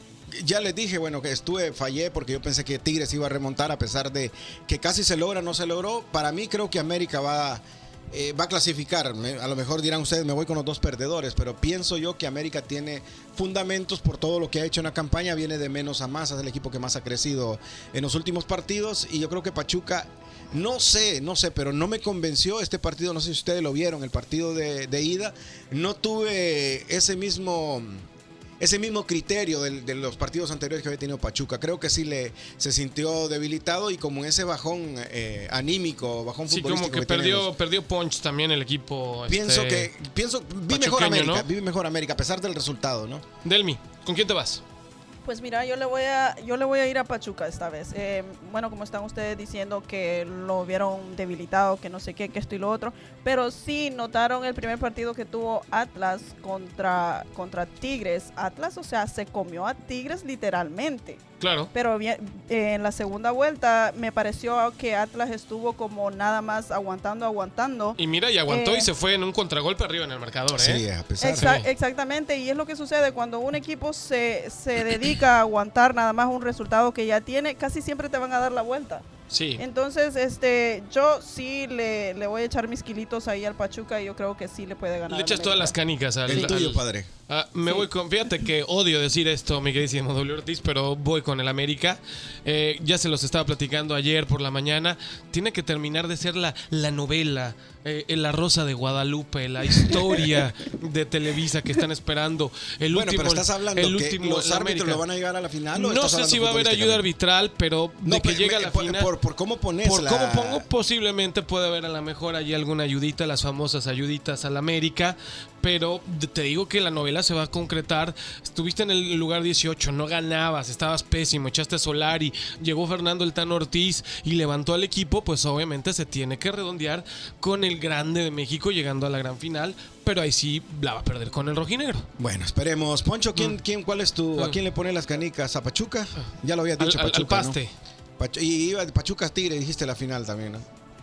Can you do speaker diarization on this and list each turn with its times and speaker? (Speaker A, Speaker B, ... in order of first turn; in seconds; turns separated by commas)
Speaker A: 0.3-28.1, Speaker A: 28.6-37.5, Speaker B: 36.5-39.9, Speaker A: 39.3-43.3, Speaker B: 40.7-41.5, Speaker B: 43.4-44.6, Speaker C: 45.2-61.2, Speaker B: 61.4-61.7, Speaker C: 61.7-68.9, Speaker B: 68.0-71.7, Speaker A: 70.5-71.5, Speaker C: 71.2-79.0, Speaker B: 79.3-79.6, Speaker C: 79.6-85.8, Speaker B: 85.1-105.0, Speaker A: 86.3-87.1, Speaker A: 102.9-107.0, Speaker B: 105.8-109.1, Speaker A: 108.0-110.7, Speaker B: 109.8-132.1, Speaker A: 132.2-137.6, Speaker B: 136.8-137.7, Speaker A: 138.2-140.7